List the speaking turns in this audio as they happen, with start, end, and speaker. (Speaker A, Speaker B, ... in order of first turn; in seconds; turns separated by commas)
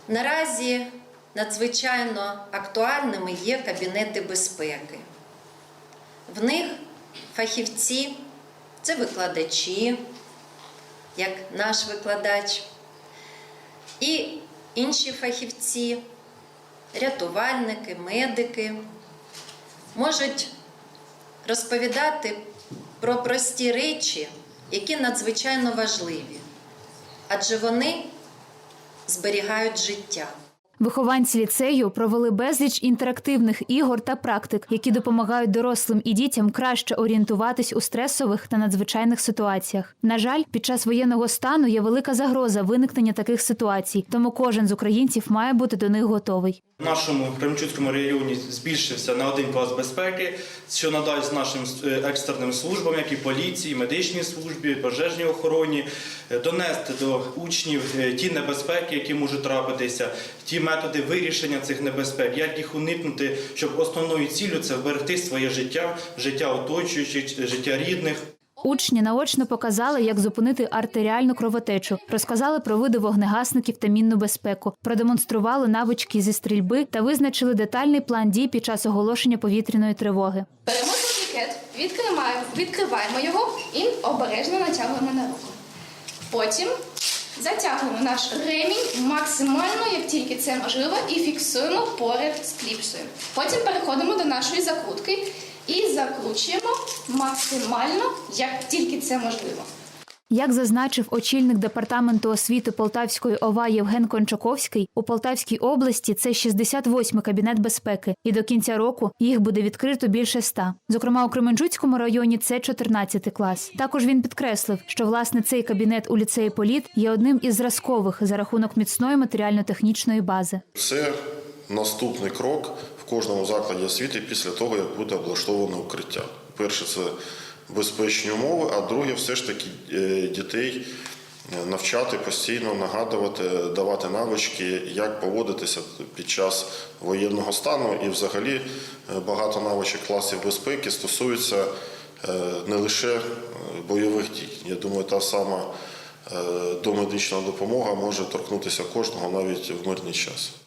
Speaker A: 0.1-5.0, Speaker A: 6.3-6.8, Speaker A: 7.3-8.2, Speaker A: 8.8-10.0, Speaker A: 11.2-12.7, Speaker A: 14.0-16.0, Speaker A: 16.9-18.8, Speaker A: 19.9-20.5, Speaker A: 21.4-22.4, Speaker A: 23.0-26.4, Speaker A: 27.3-28.1, Speaker A: 29.1-30.3, Speaker B: 30.8-46.6, Speaker C: 46.8-68.2, Speaker B: 68.6-80.5, Speaker D: 80.7-85.6, Speaker D: 86.3-86.7, Speaker D: 87.4-99.7, Speaker B: 100.3-120.6, Speaker E: 120.8-121.2, Speaker E: 121.7-127.2, Speaker E: 127.7-130.9, Speaker E: 131.5-141.7, Speaker E: 142.2-145.7, Speaker E: 146.3-150.5